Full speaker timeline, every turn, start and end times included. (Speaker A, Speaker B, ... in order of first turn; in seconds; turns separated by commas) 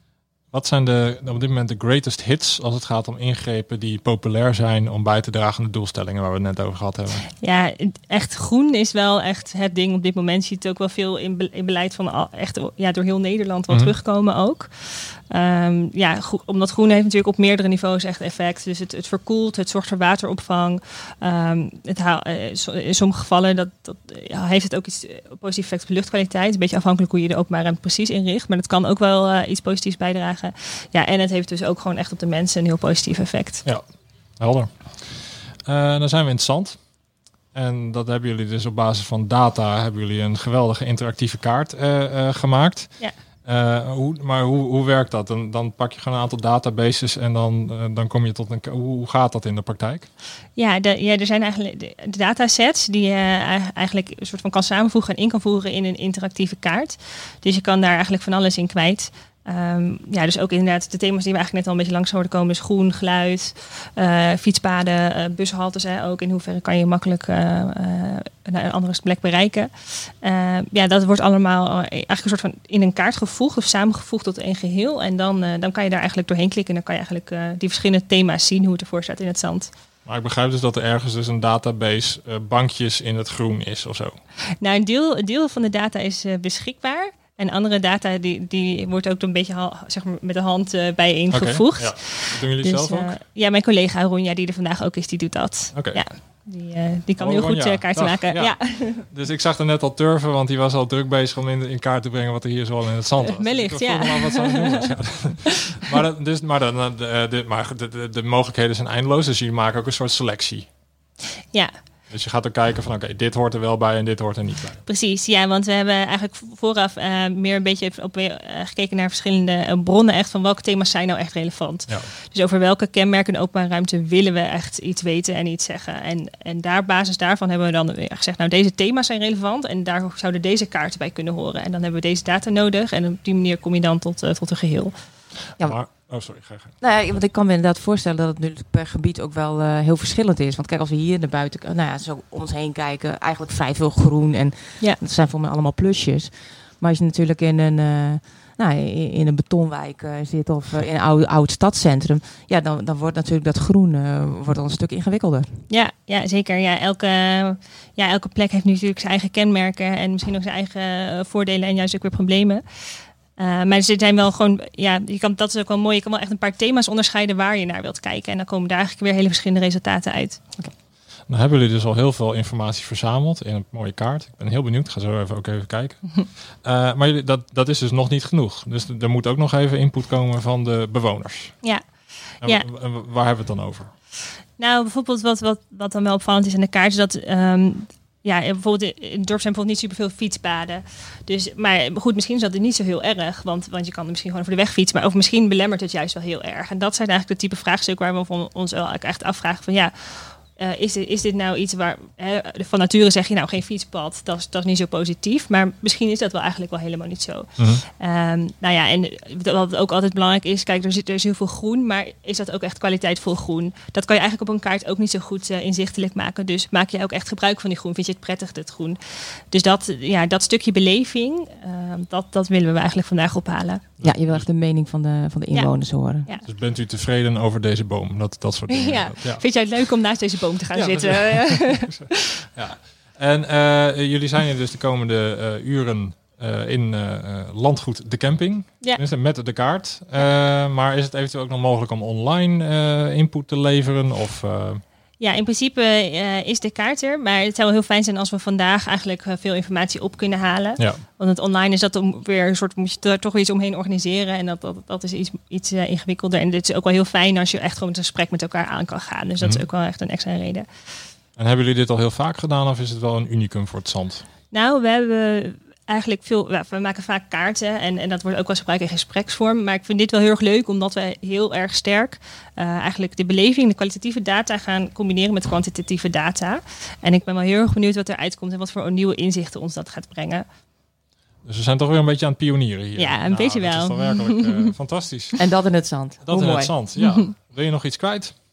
Speaker A: 0.5-7.3, Speaker B: 7.4-33.6, Speaker A: 13.7-13.9, Speaker A: 33.6-50.1, Speaker B: 50.5-79.7, Speaker A: 80.0-84.2, Speaker B: 84.6-99.0, Speaker A: 91.3-93.2, Speaker A: 95.7-96.0, Speaker A: 97.2-110.7, Speaker B: 103.3-104.9, Speaker A: 112.1-114.8, Speaker B: 114.8-134.9, Speaker A: 135.5-136.8, Speaker C: 135.6-136.0, Speaker C: 136.8-155.6, Speaker B: 155.7-170.6, Speaker A: 171.3-181.6, Speaker A: 182.4-183.9, Speaker B: 184.6-223.9, Speaker A: 207.6-207.8, Speaker A: 224.0-224.5, Speaker C: 224.0-226.3, Speaker B: 225.5-226.5, Speaker A: 226.4-229.4, Speaker B: 228.7-232.1, Speaker A: 230.7-244.8, Speaker B: 245.2-260.7, Speaker A: 250.8-251.0, Speaker A: 259.4-259.6, Speaker A: 261.4-264.2, Speaker B: 264.5-280.4, Speaker A: 281.4-285.4, Speaker B: 282.9-284.7, Speaker C: 285.4-286.7, Speaker A: 286.2-288.4, Speaker B: 286.9-287.3